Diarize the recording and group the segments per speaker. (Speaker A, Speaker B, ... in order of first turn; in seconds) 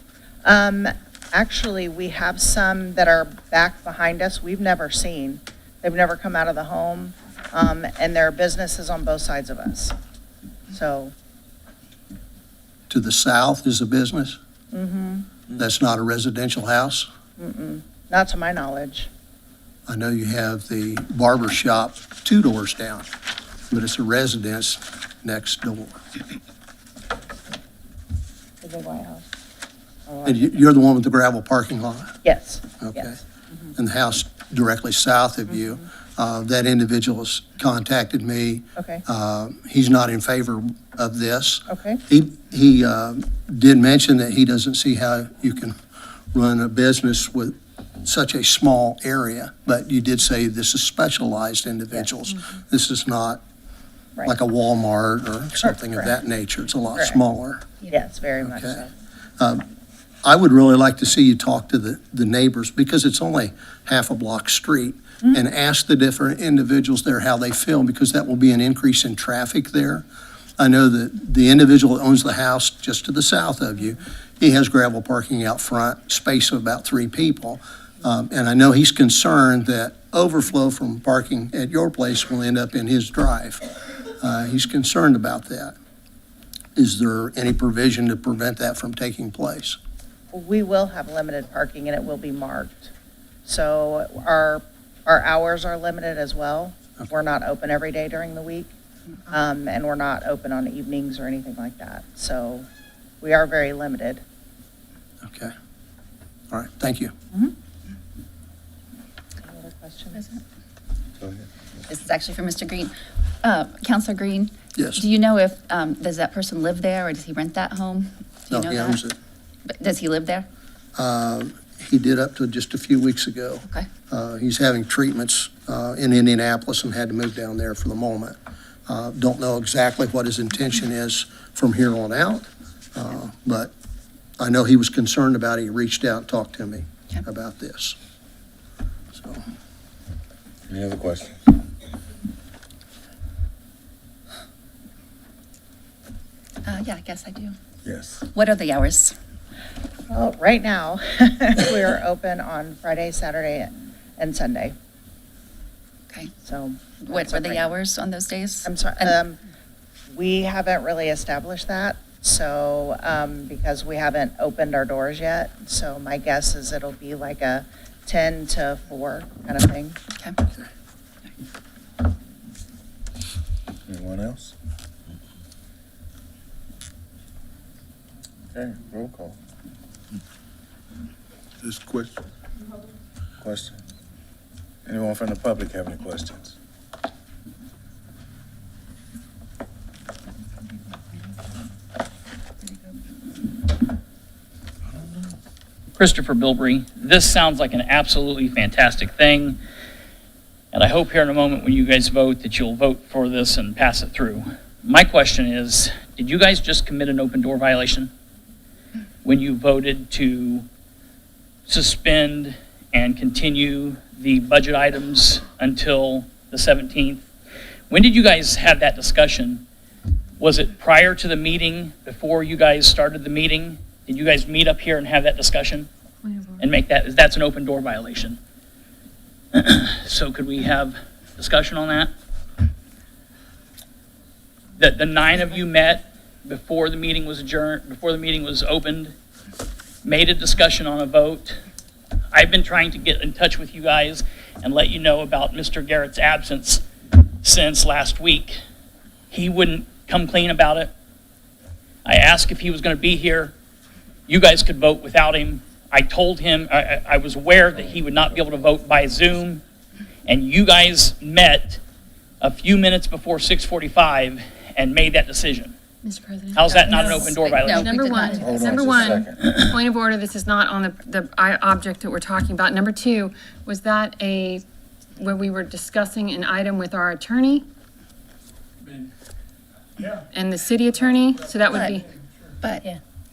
Speaker A: 0.4-9.9, 10.7-11.1, 14.7-15.3, 17.4-19.1, 28.6-29.2, 30.1-30.6, 32.2-33.7, 38.8-39.0, 41.7-42.0, 55.6-56.1, 57.9-58.9, 90.3-92.9, 93.5-98.7, 99.3-102.7, 103.2-104.2, 109.4-110.3, 150.1-154.8, 156.4-157.7, 158.6-159.4, 160.1-170.0
Speaker B: 12.9-14.4, 15.5-17.1, 19.9-23.1, 23.7-26.0, 30.2-32.2, 32.8-33.2, 33.8-45.8, 46.3-53.4, 54.2-57.7, 58.4-58.8, 59.4-59.6, 60.2-70.0, 70.6-83.6, 84.2-85.7, 86.8-89.8, 105.2-105.5, 106.5-107.1, 114.7-115.0, 118.5-119.1, 121.0-128.3, 128.9-133.7, 134.4-137.9, 139.1-139.4
Speaker C: 111.2-111.5, 140.7-141.4, 147.8-148.2, 173.9-174.5, 178.5-179.3, 183.4-183.8, 184.8-186.5, 268.4-269.5
Speaker D: 111.9-119.0, 119.7-120.5, 146.6-147.5, 148.3-149.1, 157.0-159.2, 267.0-268.6, 282.6-282.9
Speaker E: 195.9-199.6, 200.7-208.1, 209.2-210.7, 211.7-217.2, 217.9-219.6, 220.4-225.9, 226.6-228.4, 229.5-232.1, 234.8-239.1, 240.0-241.6, 242.3-246.8, 247.4-248.6, 249.3-250.9, 252.0-253.5, 254.3-259.6, 260.2-261.8, 262.4-265.7, 266.5-267.9
Speaker F: 226.2-226.7, 266.0-274.6, 275.2-277.6, 280.1-282.1